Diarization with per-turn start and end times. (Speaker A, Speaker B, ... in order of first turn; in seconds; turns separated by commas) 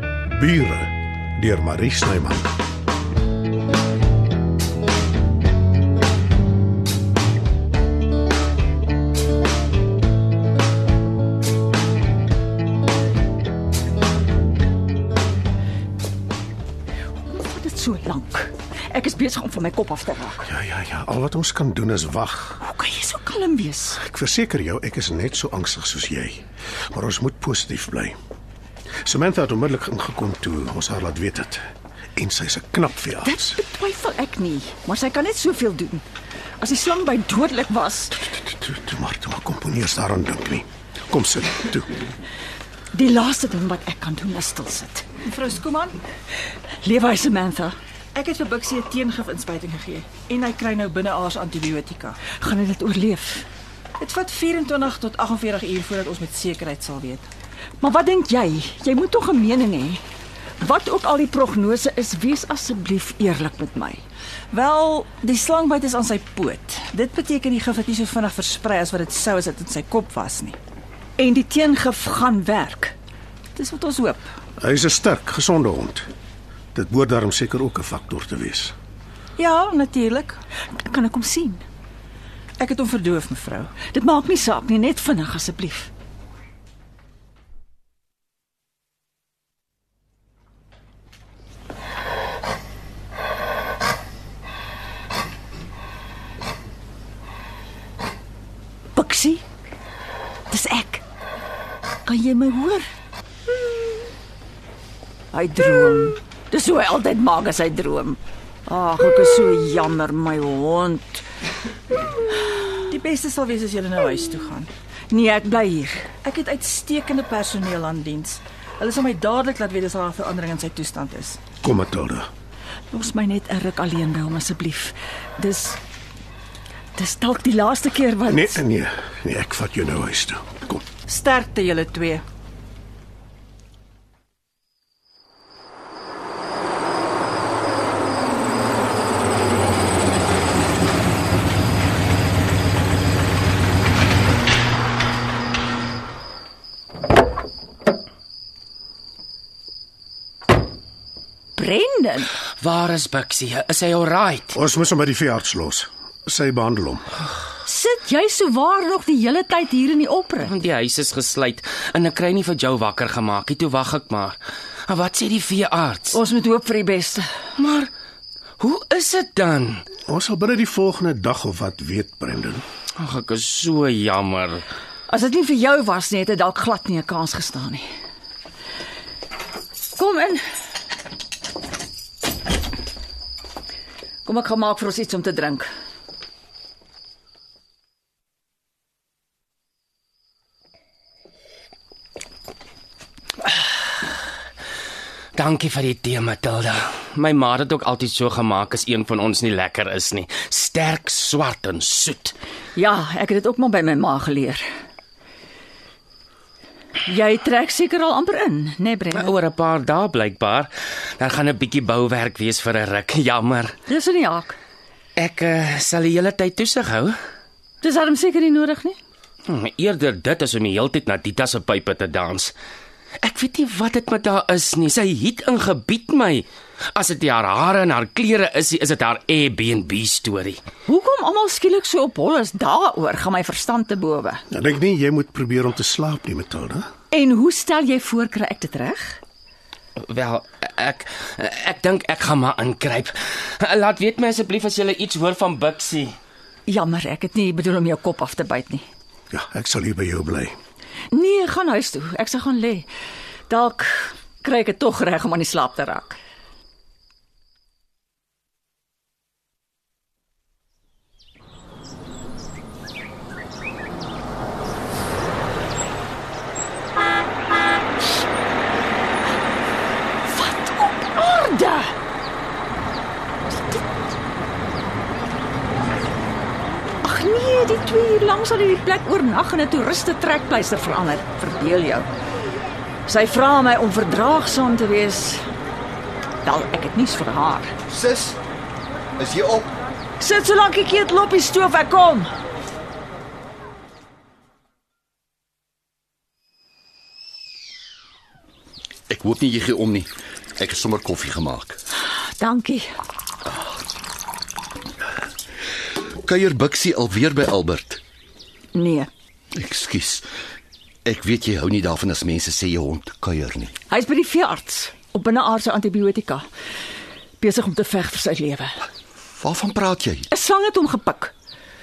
Speaker A: 0.3-2.5, Speaker B: 17.3-20.5, Speaker A: 20.5-22.6, Speaker B: 22.6-24.0, Speaker A: 24.0-28.1, Speaker A: 29.1-31.6, Speaker A: 32.2-33.6, Speaker B: 33.2-36.0, Speaker B: 36.6-38.3, Speaker A: 38.3-41.9, Speaker B: 42.9-45.2, Speaker C: 45.3-46.0, Speaker B: 46.8-47.8, Speaker C: 48.1-52.2, Speaker B: 52.2-53.5, Speaker C: 54.0-57.3, Speaker B: 57.8-60.0, Speaker B: 60.6-64.0, Speaker C: 64.5-70.5, Speaker B: 71.2-73.0, Speaker B: 73.5-74.2, Speaker A: 74.6-76.1, Speaker A: 76.7-78.7, Speaker C: 79.4-80.4, Speaker B: 80.7-81.6, Speaker C: 82.6-83.7, Speaker B: 83.7-85.9, Speaker B: 98.9-99.4, Speaker B: 100.5-101.0, Speaker B: 102.0-102.8, Speaker B: 105.3-111.2, Speaker C: 112.9-114.7, Speaker B: 115.1-116.2, Speaker C: 116.2-121.4, Speaker A: 121.6-122.3, Speaker B: 122.9-125.8, Speaker B: 127.0-128.6, Speaker A: 128.3-130.8, Speaker C: 131.1-132.2, Speaker B: 151.6-152.3, Speaker D: 152.6-154.6, Speaker A: 154.6-157.1, Speaker B: 157.6-160.5, Speaker D: 160.4-166.2, Speaker B: 166.1-167.3, Speaker D: 167.6-167.9, Speaker D: 168.6-169.8, Speaker A: 170.1-172.6, Speaker D: 173.0-174.6, Speaker B: 175.1-177.9, Speaker B: 180.0-180.4, Speaker B: 184.2-185.7, Speaker D: 195.3-202.3, Speaker B: 202.8-204.6, Speaker B: 207.1-209.3, Speaker D: 209.1-213.8, Speaker B: 213.9-214.6, Speaker D: 215.2-217.2, Speaker B: 217.8-219.0, Speaker D: 219.5-222.5, Speaker D: 223.2-230.6, Speaker B: 230.9-234.4, Speaker A: 234.5-236.9, Speaker B: 237.1-239.2, Speaker D: 240.0-246.2, Speaker B: 246.7-248.9, Speaker A: 249.3-250.5, Speaker B: 251.1-252.9, Speaker B: 253.5-256.2, Speaker B: 270.2-271.9, Speaker B: 277.0-282.1, Speaker B: 283.1-285.5, Speaker B: 286.4-287.7, Speaker E: 287.9-288.4, Speaker E: 289.2-289.7, Speaker B: 290.2-292.3, Speaker E: 299.1-301.8, Speaker B: 302.4-302.9, Speaker E: 306.2-308.0, Speaker B: 308.7-309.1, Speaker E: 309.5-310.2, Speaker E: 311.0-313.7, Speaker B: 313.9-316.4, Speaker B: 317.4-318.8, Speaker E: 319.4-320.3, Speaker B: 320.3-321.3